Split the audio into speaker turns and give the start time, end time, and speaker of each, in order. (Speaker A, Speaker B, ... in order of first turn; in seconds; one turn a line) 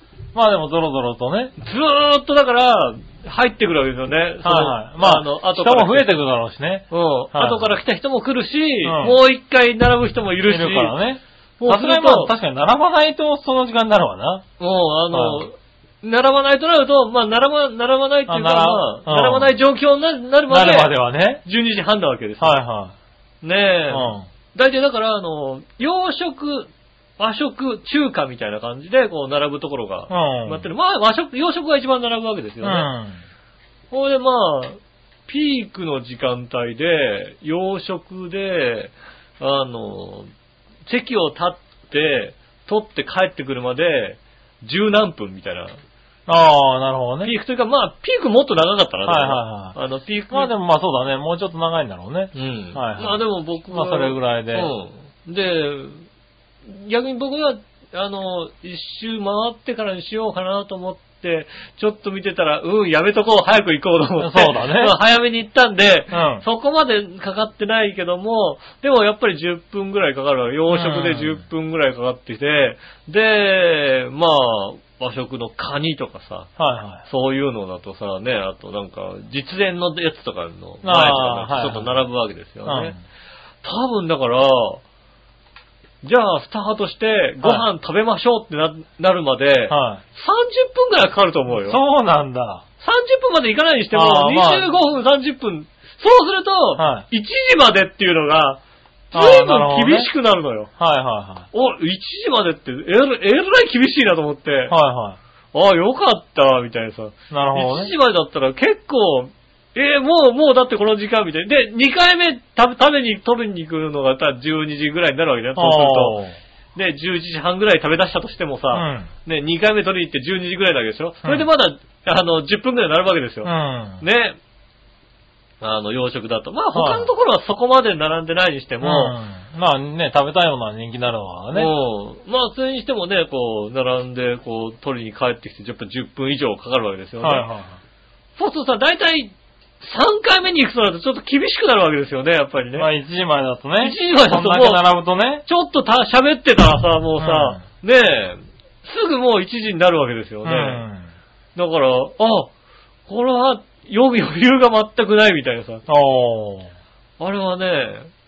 Speaker A: 0.3-1.5
Speaker B: 1.6-6.2
Speaker A: 4.4-7.7
Speaker B: 6.9-11.0
Speaker A: 8.8-9.2
Speaker A: 10.4-14.4
Speaker B: 11.6-12.3
Speaker B: 14.6-22.6
Speaker A: 15.1-15.4
Speaker A: 18.3-19.5
Speaker A: 20.5-21.4
Speaker A: 22.4-22.9
Speaker B: 23.4-32.9
Speaker A: 23.9-24.3
Speaker A: 30.1-30.6
Speaker A: 32.6-33.2
Speaker B: 33.9-40.3
Speaker B: 40.9-45.8
Speaker A: 46.3-47.3
Speaker B: 47.2-50.5
Speaker A: 49.0-49.8
Speaker A: 50.3-54.7
Speaker B: 52.3-56.0
Speaker B: 56.6-76.5
Speaker A: 64.2-64.9
Speaker A: 66.1-66.4
Speaker A: 70.7-71.4
Speaker A: 76.6-77.0
Speaker B: 77.0-82.9
Speaker A: 80.8-82.0
Speaker A: 82.6-83.0
Speaker B: 83.6-84.8
Speaker B: 86.0-91.8
Speaker A: 89.7-90.0
Speaker A: 91.5-92.6
Speaker B: 92.8-98.6
Speaker A: 93.9-94.7
Speaker A: 96.8-97.0
Speaker B: 99.1-100.7
Speaker A: 99.1-100.1
Speaker A: 100.8-101.5
Speaker B: 101.5-104.7
Speaker A: 104.7-105.2
Speaker B: 105.5-116.2
Speaker A: 107.3-107.9
Speaker A: 115.5-116.4
Speaker B: 116.7-124.4
Speaker A: 118.7-119.1
Speaker A: 123.4-124.0
Speaker B: 125.6-129.2
Speaker A: 126.7-127.1
Speaker A: 128.8-131.7
Speaker B: 131.5-137.4
Speaker A: 137.2-137.8
Speaker B: 138.4-142.9
Speaker A: 142.8-145.4
Speaker B: 143.8-144.8
Speaker B: 145.4-150.8
Speaker A: 147.2-147.6
Speaker A: 150.4-151.1
Speaker B: 151.6-152.5
Speaker B: 153.1-155.8
Speaker A: 155.9-156.7
Speaker B: 157.2-158.1